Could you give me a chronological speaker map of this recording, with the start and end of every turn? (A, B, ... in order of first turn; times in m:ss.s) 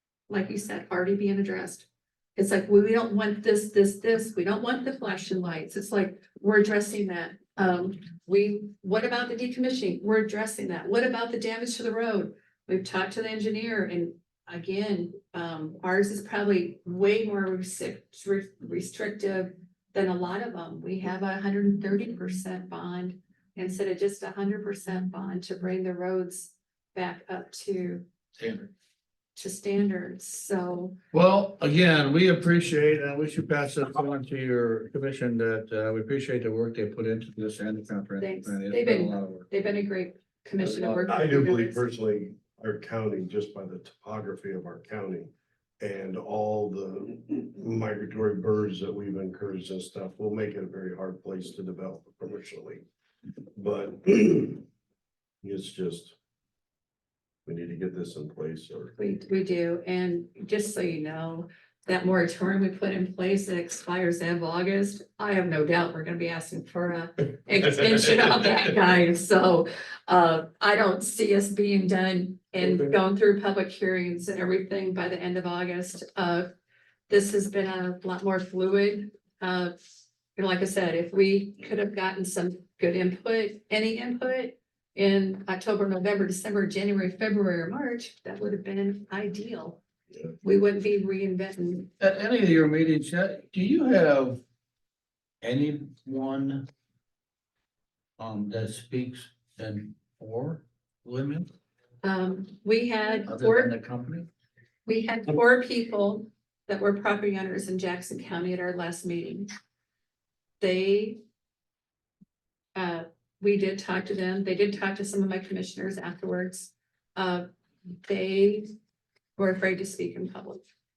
0:00.3-0:28.1 A
0:28.4-0:28.7 B
0:29.4-0:31.0 A
0:31.1-0:39.5 B
0:38.2-0:41.9 A
0:40.7-0:41.1 B
0:41.1-0:52.8 C
0:53.6-0:54.6 C
0:55.4-0:56.2 C
0:57.4-0:58.9 C
0:59.0-1:16.5 A
1:17.1-1:19.7 A
1:20.4-1:29.8 A
1:30.4-1:31.9 A
1:32.0-1:34.4 B
1:35.4-1:36.7 B
1:38.2-1:41.5 B
1:42.0-1:43.7 A
1:43.3-1:44.3 B
1:44.9-1:49.5 A
1:50.6-1:51.2 A
1:52.8-1:57.5 A
1:58.0-1:58.7 A
1:59.4-2:00.6 A